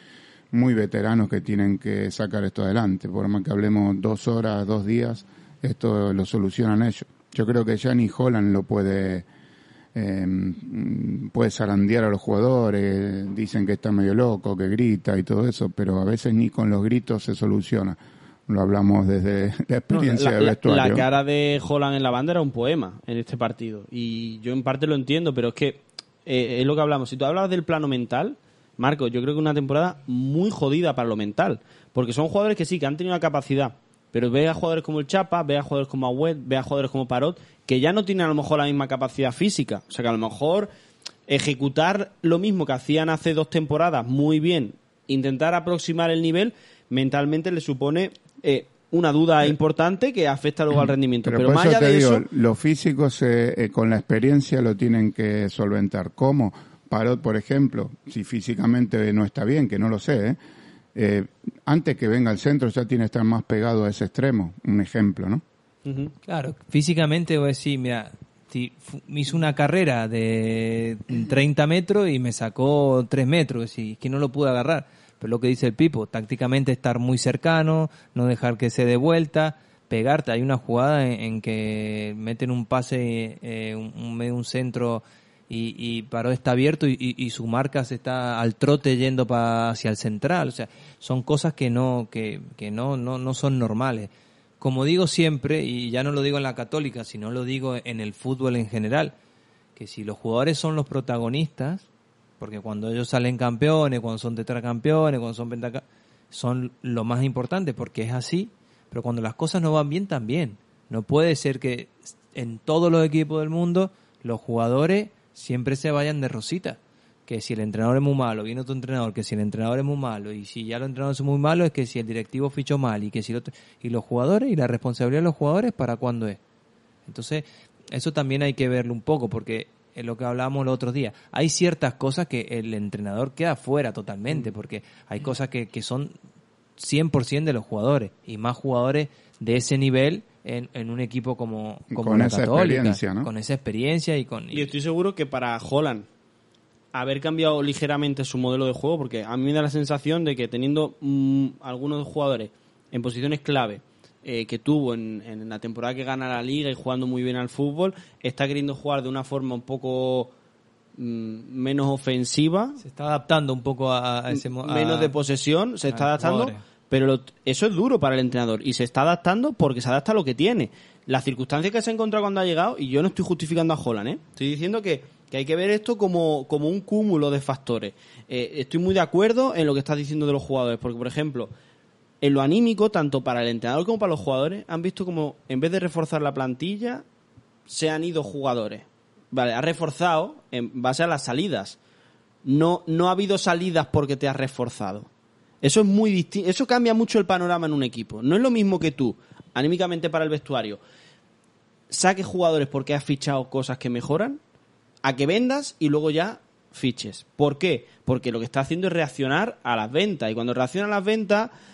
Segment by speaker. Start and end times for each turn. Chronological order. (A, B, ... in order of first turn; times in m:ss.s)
0:00.5-0:09.2 A
0:09.9-0:21.0 A
0:19.9-0:40.7 B
0:41.3-0:52.2 B
0:51.2-1:00.4 A
1:00.9-1:05.4 A
1:05.8-1:06.1 B
1:06.3-1:39.1 C
1:39.8-1:41.8 C
1:42.4-2:06.4 C
2:07.0-2:16.1 C
2:16.8-2:24.7 C
2:21.9-2:23.3 A
2:24.5-2:26.0 B
2:26.9-2:40.3 B
2:41.0-2:42.8 B
2:42.8-2:45.1 C
2:44.3-3:01.5 B
2:45.9-2:46.6 C
3:02.2-3:07.0 B
3:07.7-3:11.8 B
3:12.4-3:15.1 B
3:15.6-3:20.8 B
3:21.9-3:24.4 B
3:25.0-3:31.5 B